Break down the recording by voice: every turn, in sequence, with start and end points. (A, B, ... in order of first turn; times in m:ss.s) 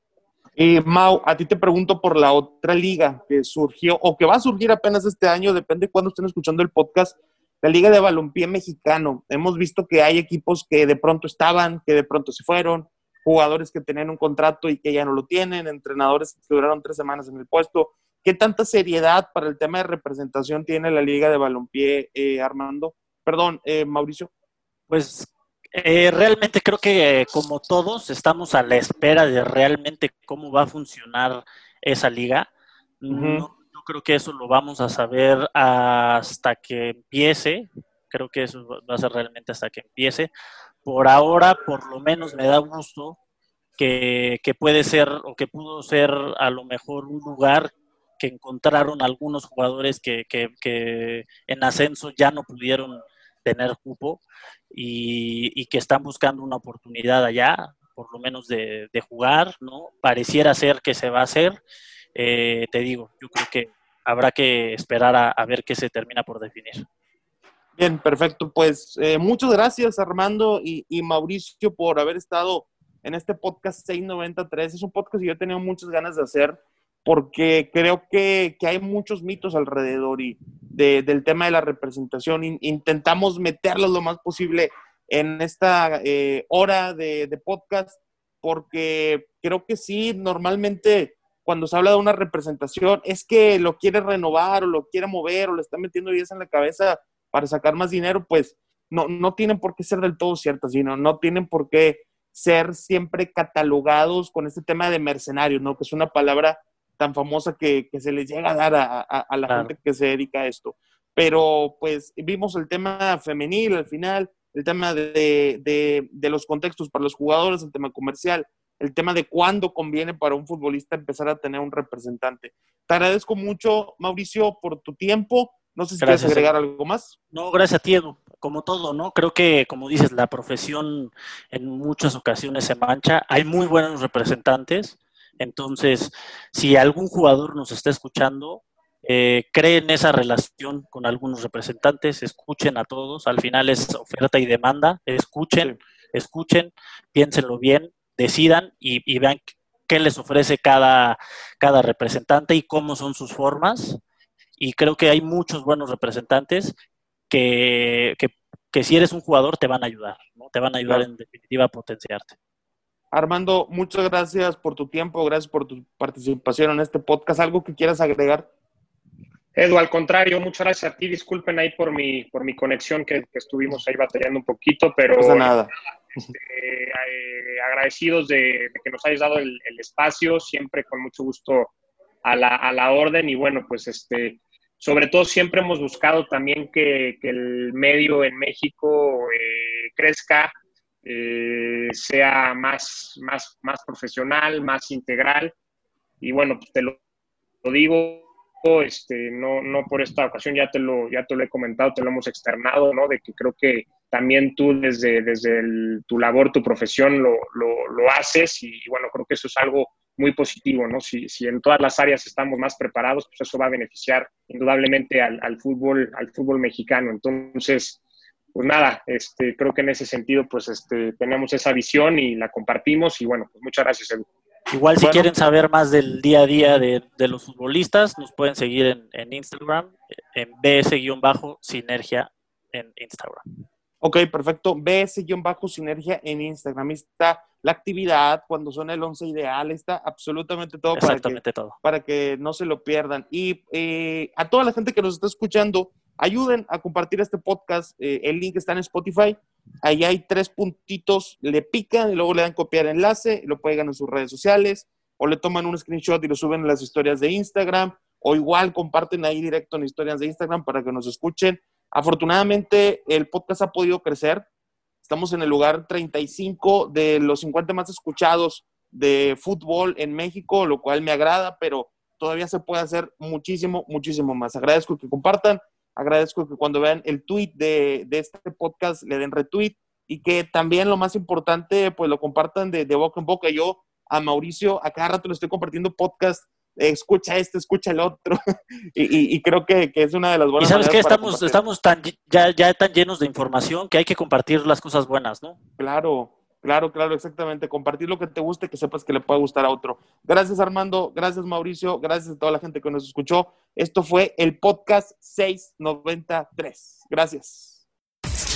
0:00.6-0:24.3 A
0:24.9-0:32.5 B
0:33.0-0:40.3 B
0:33.1-0:33.4 A
0:40.8-0:43.2 B
0:43.8-0:54.2 B
0:54.7-1:01.6 B
1:02.1-1:06.8 B
1:07.8-2:07.1 A
2:06.0-2:06.5 B
2:07.3-2:34.0 B
2:34.6-2:36.8 B
2:37.3-2:42.3 B
2:43.1-2:48.5 A
2:49.5-2:55.5 C
2:55.2-2:56.3 A
2:56.1-3:01.7 C
3:02.2-3:10.5 C
3:11.0-3:15.5 C
3:16.2-3:17.0 C
3:17.6-3:38.0 C
3:38.5-3:44.2 C
3:44.7-3:53.4 B
3:45.0-3:45.3 A
3:54.0-4:24.4 A
4:00.9-4:01.8 B
4:25.0-4:48.4 A
4:48.9-4:51.6 A
4:50.6-4:55.6 B
4:55.8-5:07.8 A